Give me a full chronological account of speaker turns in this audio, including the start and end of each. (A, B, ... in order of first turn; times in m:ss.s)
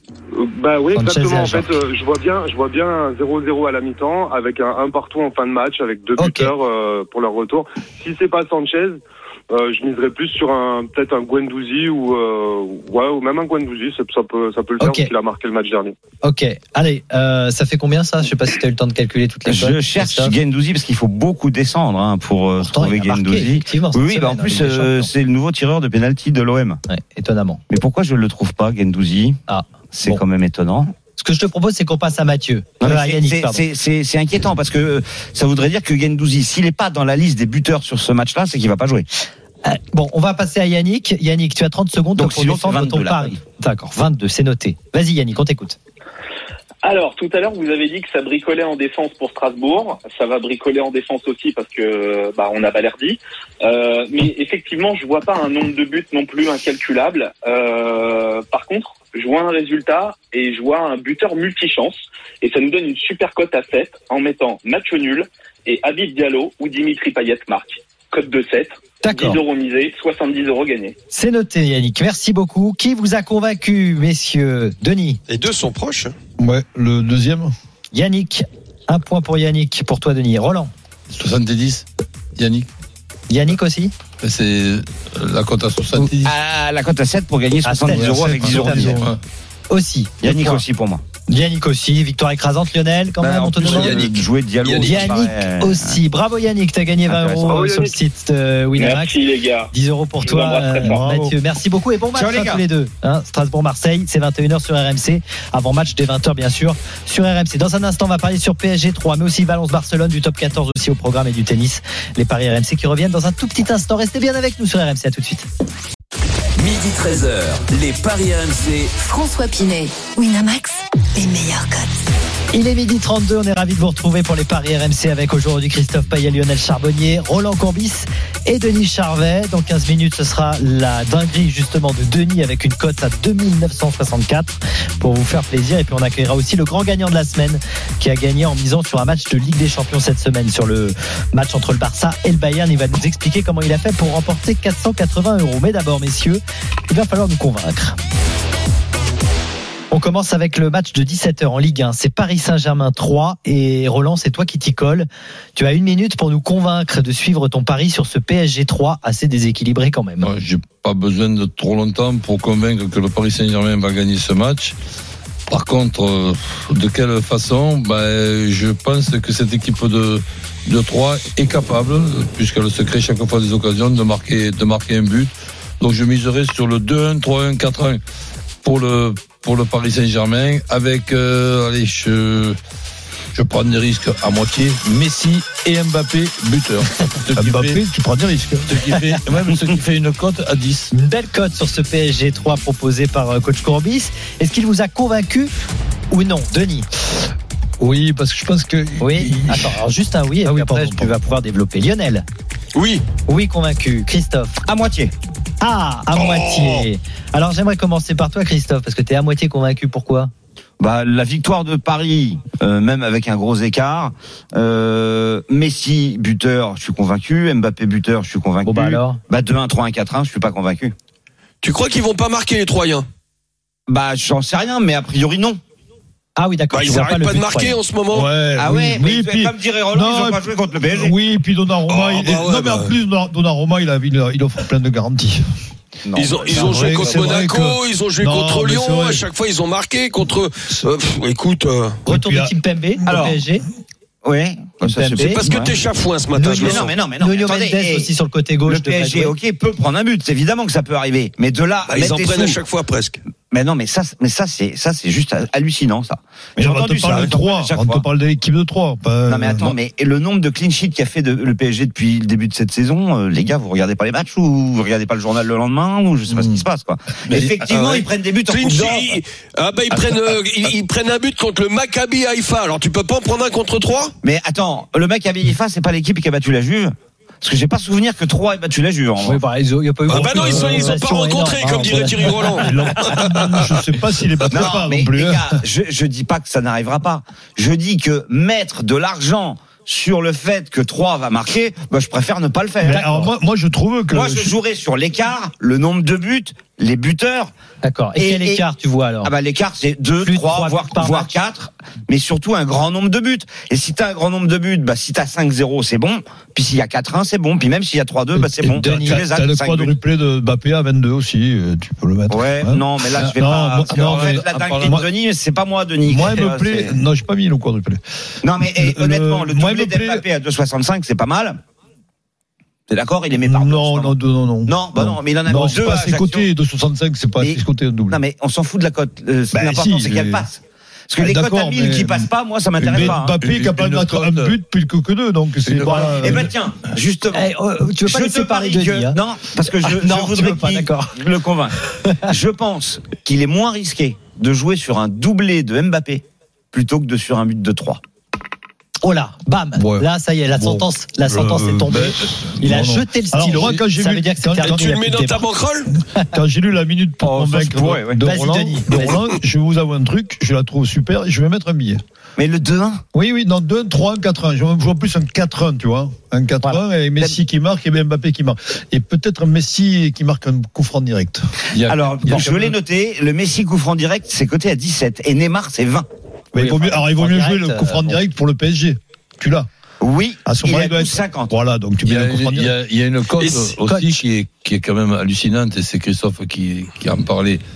0:00.3-0:16.0 A
0:00.9-0:01.7 B
0:06.2-0:06.5 B
0:14.8-0:15.1 B
0:16.2-0:20.3 B
0:19.4-0:26.8 C
0:22.6-0:25.1 B
0:26.9-0:27.6 B
0:27.7-0:29.4 C
0:29.5-0:30.2 B
0:29.9-0:30.9 C
0:31.2-0:33.6 B
0:32.8-0:39.0 C
0:39.6-0:45.8 B
0:42.2-0:43.4 C
0:46.8-1:11.0 D
1:09.0-1:09.4 B
1:11.1-1:15.2 B
1:15.3-1:16.1 E
1:16.4-1:17.5 F
1:17.9-1:20.7 B
1:21.1-1:21.8 G
1:22.4-1:22.7 G
1:23.3-1:23.9 B
1:24.2-1:26.3 G
1:26.2-1:29.0 C
1:27.6-1:28.9 B
1:27.9-1:29.2 F
1:29.7-1:30.6 B
1:30.2-1:31.0 C
1:31.3-1:34.1 B
1:33.2-1:36.0 C
1:34.7-1:39.1 B
1:37.1-1:37.6 C
1:37.4-1:37.9 A
1:38.7-1:39.7 D
1:39.7-1:55.5 B
1:40.2-1:41.0 D
1:40.8-1:41.4 F
1:42.1-1:42.6 C
1:56.6-1:59.0 H
1:59.0-2:02.0 I
2:02.5-2:28.0 B
2:29.9-2:40.3 B
2:40.2-2:44.7 G
2:45.5-2:58.0 G
2:58.6-3:02.6 G
3:03.3-3:07.8 G
3:07.4-3:08.9 F
3:08.7-3:10.9 G
3:10.9-3:15.5 B
3:16.1-3:16.9 B
3:17.8-3:19.8 F
3:19.0-3:22.2 B
3:20.4-3:21.2 F
3:22.7-3:23.0 E
3:23.3-3:24.6 B
3:24.6-3:25.1 C
3:25.6-3:30.3 B
3:26.1-3:26.8 E
3:30.8-3:40.9 C
3:38.6-3:39.2 B
3:41.6-3:43.1 E
3:43.9-3:45.6 C
3:46.4-3:47.8 B
3:46.7-3:48.3 E
3:48.1-3:55.4 F
3:48.6-3:51.1 C
3:51.9-3:52.9 E
3:56.0-3:57.4 C
3:56.1-4:02.0 E
3:56.5-3:59.2 F
4:02.0-4:03.6 B
4:02.1-4:03.0 F
4:03.1-4:03.4 C
4:04.2-4:05.8 C
4:04.8-4:05.4 B
4:05.2-4:06.9 E
4:06.3-4:09.3 B
4:06.4-4:08.1 C
4:08.6-4:12.6 C
4:11.9-4:13.2 E
4:13.5-4:18.0 C
4:16.6-4:19.7 F
4:19.3-4:29.2 C
4:26.3-4:26.6 F
4:27.3-4:27.6 G
4:27.7-4:34.1 E
4:34.2-4:39.4 C
4:39.2-4:42.7 B
4:40.1-4:41.0 F
4:40.1-4:43.8 E
4:42.6-4:45.6 F
4:44.5-4:53.2 C
4:52.8-4:54.5 F
4:52.9-4:53.3 B
4:54.1-4:57.5 C
4:57.8-4:59.3 B
4:58.2-4:58.6 C
4:59.2-5:09.9 C
5:00.2-5:01.3 B
5:08.3-5:15.0 F
5:08.7-5:09.2 B
5:12.3-5:16.9 C
5:13.8-5:15.0 G
5:16.1-5:18.0 F
5:18.4-5:21.6 C
5:18.6-5:20.2 F
5:22.9-5:24.1 C
5:23.4-5:28.2 F
5:24.7-5:26.5 C
5:27.4-5:33.3 C
5:29.5-5:30.4 F
5:31.2-5:32.3 F
5:32.8-5:36.5 F
5:32.9-5:34.6 G
5:35.6-5:36.2 G
5:35.9-5:48.0 C
5:37.3-5:39.2 B
5:39.8-5:41.2 B
5:49.0-5:55.4 B
5:49.7-5:55.0 F
5:54.6-5:55.9 E
5:56.3-6:02.0 F
5:57.2-5:58.2 C
5:58.2-5:59.2 B
6:02.4-6:03.0 C
6:03.1-6:11.4 F
6:11.7-6:12.7 G
6:11.9-6:16.0 C
6:16.5-6:19.7 F
6:16.6-6:18.2 B
6:20.0-6:21.5 C
6:20.4-6:22.7 F
6:22.0-6:27.6 G
6:23.4-6:23.7 E